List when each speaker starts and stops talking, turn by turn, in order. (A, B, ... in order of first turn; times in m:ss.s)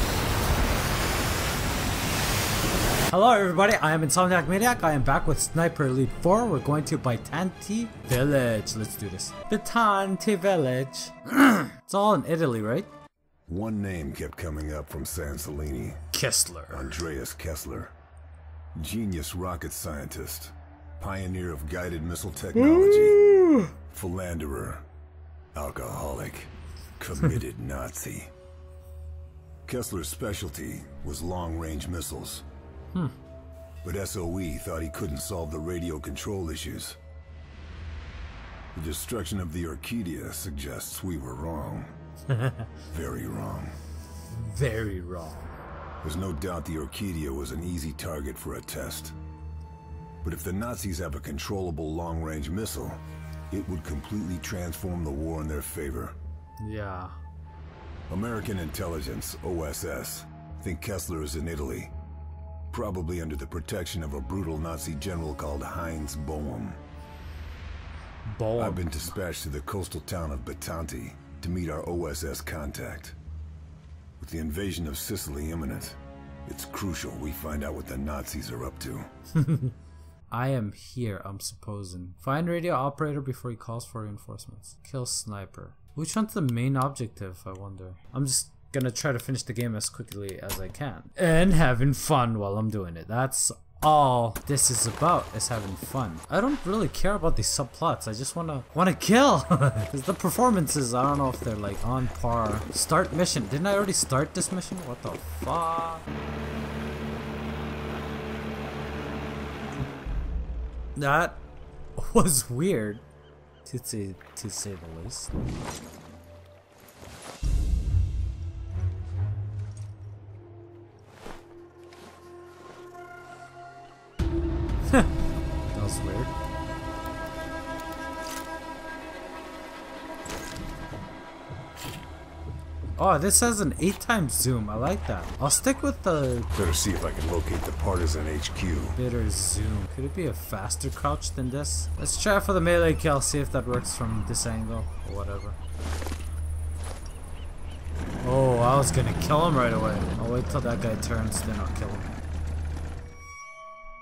0:03.1-0:12.9 A
0:13.5-0:16.0 B
0:16.1-0:17.0 A
0:16.7-0:17.9 B
0:18.7-0:23.2 B
0:22.6-0:23.7 A
0:23.9-0:24.8 B
0:25.5-0:28.3 B
0:29.6-0:32.4 B
0:33.8-0:37.0 B
0:38.7-0:41.9 B
0:42.3-0:42.7 A
0:42.9-0:43.7 B
0:44.3-0:45.5 A
0:46.0-0:49.1 B
0:50.2-0:53.0 B
0:53.5-0:56.1 B
0:56.6-0:57.1 A
0:58.1-1:01.9 B
1:02.7-1:06.8 B
1:08.2-1:09.1 A
1:08.6-1:13.2 B
1:14.2-1:19.1 B
1:19.4-1:19.7 A
1:20.3-1:46.1 A
1:51.0-1:51.4 A
1:52.0-1:53.0 A
1:53.6-1:55.3 A
2:05.7-2:06.3 A
2:13.0-2:16.5 A
2:16.5-2:19.0 B
2:19.0-2:25.6 A
2:28.2-2:32.1 A